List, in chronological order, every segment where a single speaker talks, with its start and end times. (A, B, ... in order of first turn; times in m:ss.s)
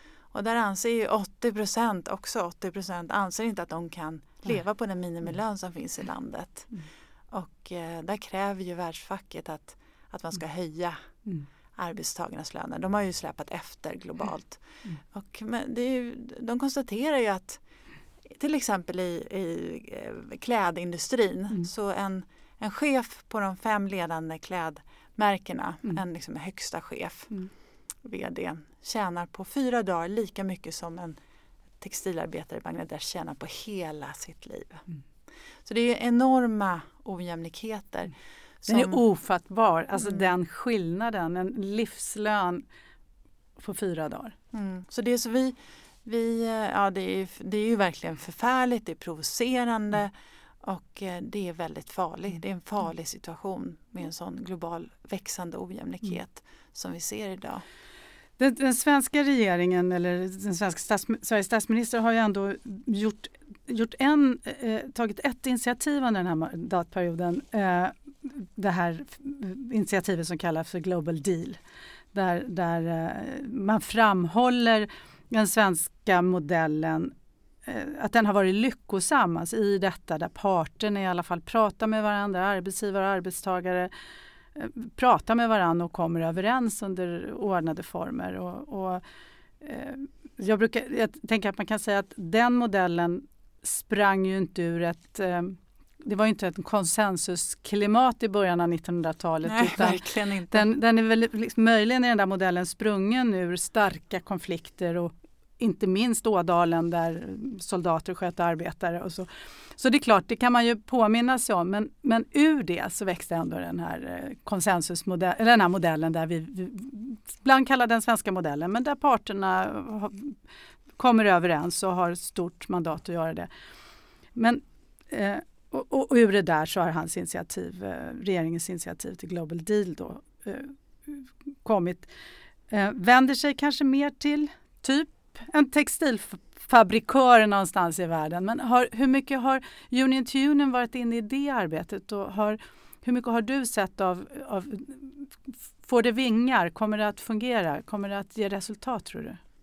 0:00.3-0:06.7 A
0:07.3-0:11.1 A
0:11.8-0:17.6 A
0:18.4-0:27.3 A
0:28.0-0:31.2 A
0:31.8-0:34.8 A
0:35.6-0:38.1 A
0:38.7-0:39.0 A
0:38.7-0:42.6 B
0:43.6-0:44.4 B
0:44.5-0:57.6 A
0:58.4-1:11.6 B
1:12.1-1:17.1 B
1:17.7-1:23.9 B
1:24.6-1:29.0 B
1:29.6-2:00.4 B
1:39.5-1:40.7 A
2:01.0-2:03.5 B
2:04.4-2:12.1 B
2:12.7-2:29.4 B